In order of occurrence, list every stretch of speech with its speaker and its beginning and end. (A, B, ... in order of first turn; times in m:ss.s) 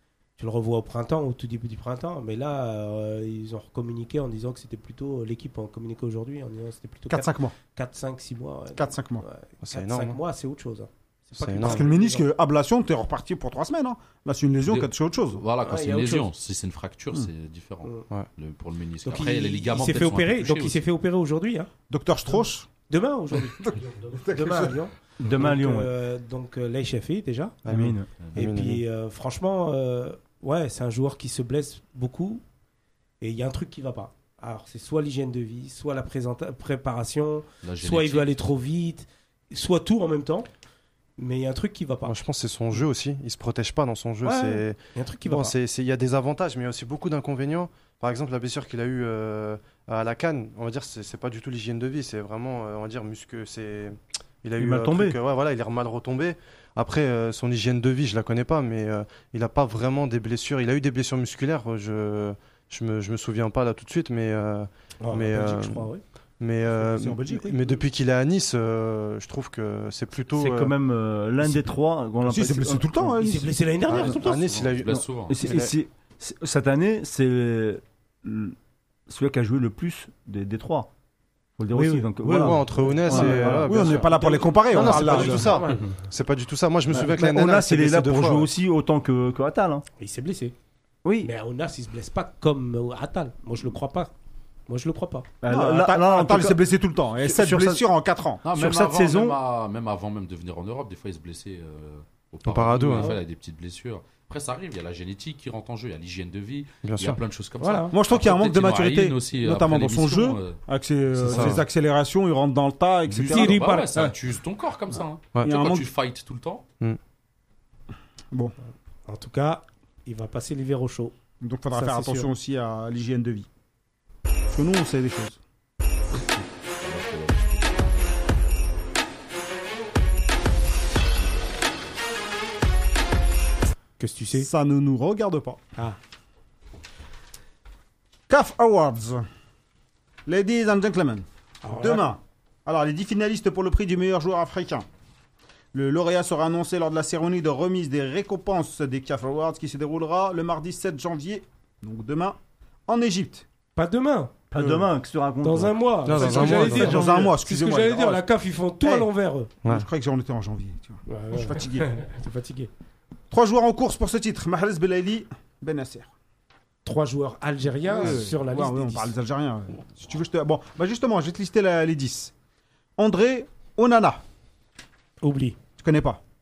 0:00.4-0:12.3 A
0:07.1-0:07.5 B
0:08.8-0:09.2 B
0:09.6-0:10.2 C
0:11.4-0:11.9 C
0:11.6-0:15.4 B
0:14.6-0:20.8 D
0:15.6-0:16.3 A
0:19.0-0:21.7 A
0:21.9-0:22.7 B
0:22.9-0:27.6 A
0:23.6-0:24.8 B
0:25.2-0:25.9 E
0:27.7-0:28.8 C
0:27.7-0:28.1 E
0:28.4-0:32.4 A
0:33.2-0:40.5 A
0:37.6-0:38.3 D
0:41.2-0:42.2 A
0:42.1-1:10.7 C
0:44.2-0:45.5 A
0:54.6-0:55.2 E
1:05.0-1:06.0 A
1:06.8-1:07.7 B
1:10.3-1:13.1 E
1:12.2-1:13.6 B
1:13.2-1:14.7 A
1:13.9-1:15.7 C
1:14.6-1:15.4 D
1:14.9-1:18.6 E
1:19.1-1:20.9 E
1:21.6-1:23.9 E
1:21.7-1:22.1 A
1:22.2-1:24.1 C
1:23.1-1:25.9 A
1:23.2-1:25.6 B
1:24.7-1:28.5 C
1:26.9-1:29.9 E
1:30.0-1:30.6 A
1:31.0-1:31.3 E
1:31.2-1:34.1 A
1:34.7-1:35.3 A
1:35.4-1:36.6 E
1:35.5-1:38.5 B
1:37.2-1:37.8 E
1:38.4-1:50.6 D
1:38.6-1:39.4 E
1:42.5-1:43.2 C
1:43.0-1:43.2 A
1:46.8-1:47.2 C
1:47.6-1:48.0 A
1:47.9-1:54.1 B
1:51.3-1:51.6 C
1:53.1-1:56.6 D
1:53.3-1:54.0 A
1:55.4-1:55.9 B
1:59.1-2:01.2 A
2:01.4-2:03.5 B
2:01.7-2:02.3 A
2:04.5-2:05.4 B
2:06.3-2:07.8 D
2:14.0-2:14.5 A
2:14.4-2:15.6 B
2:18.3-2:19.3 B
2:20.3-2:24.9 B
2:21.6-2:22.1 A
2:25.7-2:33.4 B
2:33.8-2:34.3 A
2:34.5-2:37.4 E
2:34.6-2:34.9 B
2:35.4-2:39.5 A
2:36.1-2:37.0 C
2:36.6-2:38.2 B
2:38.8-2:39.1 B
2:39.7-2:41.9 B
2:41.1-2:42.7 A
2:43.3-2:46.1 B
2:46.8-2:49.2 A
2:47.8-2:52.3 B
2:53.0-2:54.2 B
2:55.2-2:55.6 A
2:55.8-2:56.2 B